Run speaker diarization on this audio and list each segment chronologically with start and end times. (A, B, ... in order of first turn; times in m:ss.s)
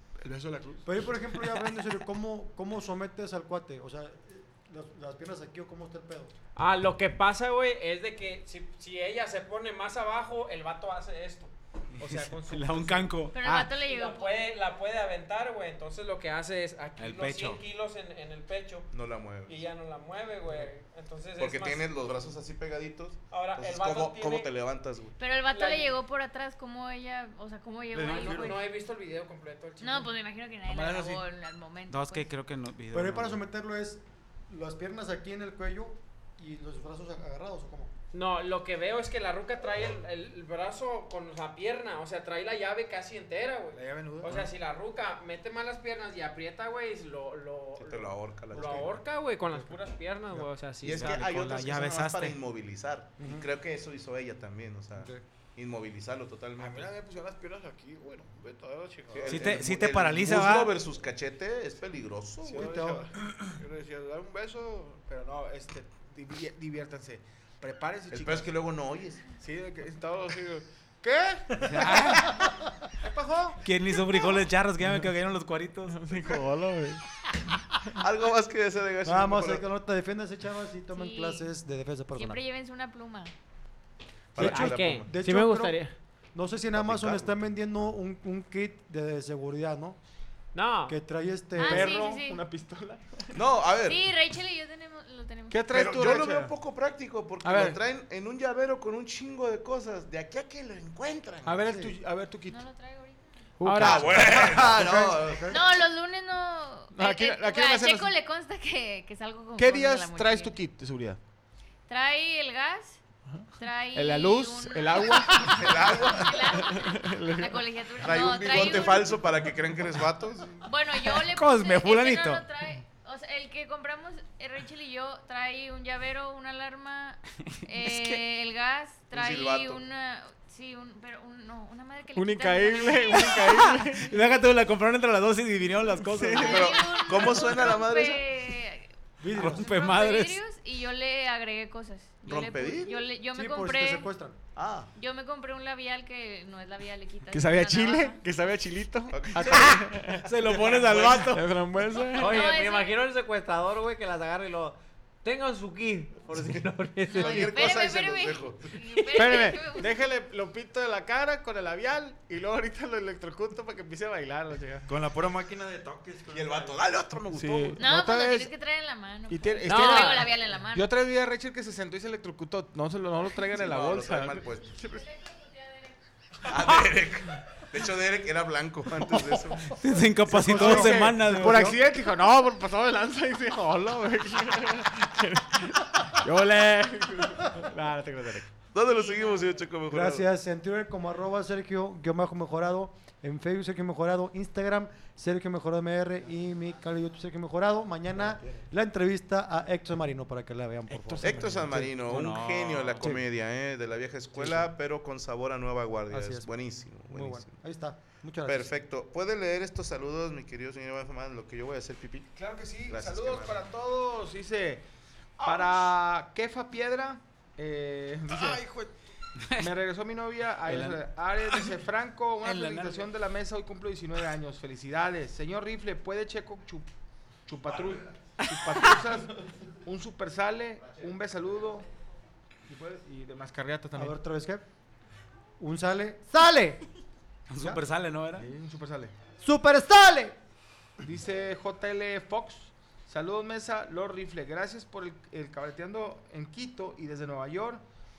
0:00.2-0:01.1 A
0:00.8-0:06.3 B
0:06.6-0:18.9 C
0:12.0-0:13.7 D
0:13.3-0:14.4 E
0:17.0-0:17.6 D
0:18.9-0:19.7 F
0:19.5-0:21.9 C
0:21.4-0:25.2 F
0:23.3-0:24.5 C
0:25.2-0:28.6 E
0:25.5-0:26.0 C
0:27.9-0:28.6 G
0:28.1-0:30.1 C
0:29.8-0:32.3 E
0:30.7-0:31.2 A
0:31.9-0:33.4 D
0:32.9-0:37.9 B
0:38.1-0:51.2 C
0:43.7-0:44.5 A
0:47.8-0:49.0 F
0:48.5-0:48.9 A
0:50.8-0:56.9 F
0:50.9-0:52.4 D
0:53.2-0:53.5 B
0:55.0-0:55.2 B
0:56.6-0:59.6 A
0:59.1-1:02.8 F
0:59.3-1:00.7 D
1:02.4-1:08.6 A
1:02.5-1:03.1 B
1:08.1-1:09.2 F
1:09.4-1:12.4 A
1:11.6-1:12.4 D
1:13.0-1:13.6 A
1:13.6-1:16.2 D
1:15.9-1:17.0 A
1:17.9-1:19.6 F
1:19.0-1:22.4 B
1:20.9-1:21.5 E
1:22.2-1:23.3 E
1:24.4-1:25.1 F
1:24.4-1:30.0 B
1:24.4-1:25.9 C
1:26.7-1:27.5 F
1:30.5-1:31.0 C
1:30.9-1:32.0 B
1:31.6-1:32.4 E
1:31.6-1:33.4 A
1:33.3-1:34.2 F
1:33.8-1:35.6 E
1:35.5-1:36.5 A
1:35.7-1:41.6 F
1:37.4-1:37.8 A
1:41.4-1:42.6 A
1:41.7-1:42.0 B
1:42.5-1:43.5 E
1:43.6-1:44.4 A
1:43.6-1:44.1 C
1:43.8-1:45.2 F
1:44.1-1:45.5 G
1:44.4-1:45.6 B
1:45.5-1:50.6 E
1:46.9-1:48.1 A
1:49.6-1:51.2 A
1:51.9-1:53.0 E
1:53.3-1:55.7 A
1:53.6-1:59.3 E
1:55.5-1:56.6 F
1:56.5-1:57.7 A
1:58.0-2:00.6 F
2:00.6-2:14.2 E
2:01.0-2:02.4 D
2:07.8-2:08.2 D
2:09.1-2:09.8 F
2:12.1-2:14.1 A
2:14.0-2:16.7 D
2:16.0-2:16.6 A
2:16.4-2:24.1 E
2:16.4-2:18.3 F
2:19.2-2:19.7 B
2:19.4-2:20.4 D
2:22.2-2:23.0 F
2:23.3-2:24.4 B
2:24.6-2:24.9 F
2:25.0-2:28.2 E
2:27.3-2:30.3 A
2:29.1-2:29.9 F
2:29.4-2:31.4 D
2:30.4-2:31.3 F
2:31.2-2:32.5 A
2:32.1-2:37.6 C
2:32.2-2:33.0 E
2:37.1-2:40.0 E
2:37.2-2:38.7 F
2:39.1-2:44.9 A
2:39.1-2:39.6 C
2:44.9-2:46.9 G
2:46.3-2:47.9 F
2:47.3-2:48.5 A
2:47.8-2:50.9 E
2:49.3-2:55.1 A
2:49.6-2:50.3 C
2:53.5-2:54.8 F
2:55.0-2:55.9 E
2:56.5-2:59.8 F
2:59.8-3:01.8 D
3:00.3-3:01.8 B
3:00.3-3:08.5 A
3:08.7-3:10.3 F
3:08.8-3:09.7 E
3:09.9-3:22.1 B
3:20.9-3:21.9 A
3:21.2-3:27.5 F
3:22.0-3:23.2 D
3:24.4-3:24.7 B
3:26.1-3:26.5 B
3:27.1-3:28.7 B
3:28.4-3:32.3 F
3:32.4-3:34.8 A
3:32.9-3:33.6 F
3:35.4-3:35.8 G
3:35.4-3:38.6 A
3:38.3-3:38.9 G
3:39.4-3:39.7 D
3:39.6-3:46.9 A
3:40.7-3:41.8 D
3:42.4-3:43.1 D
3:47.5-3:51.9 A
3:48.4-3:49.0 D
3:52.7-3:54.2 A
3:54.0-3:54.6 B
3:55.6-3:56.8 B
3:57.5-3:58.5 D
3:58.4-3:59.1 A
3:59.4-4:00.4 B
4:01.0-4:07.8 A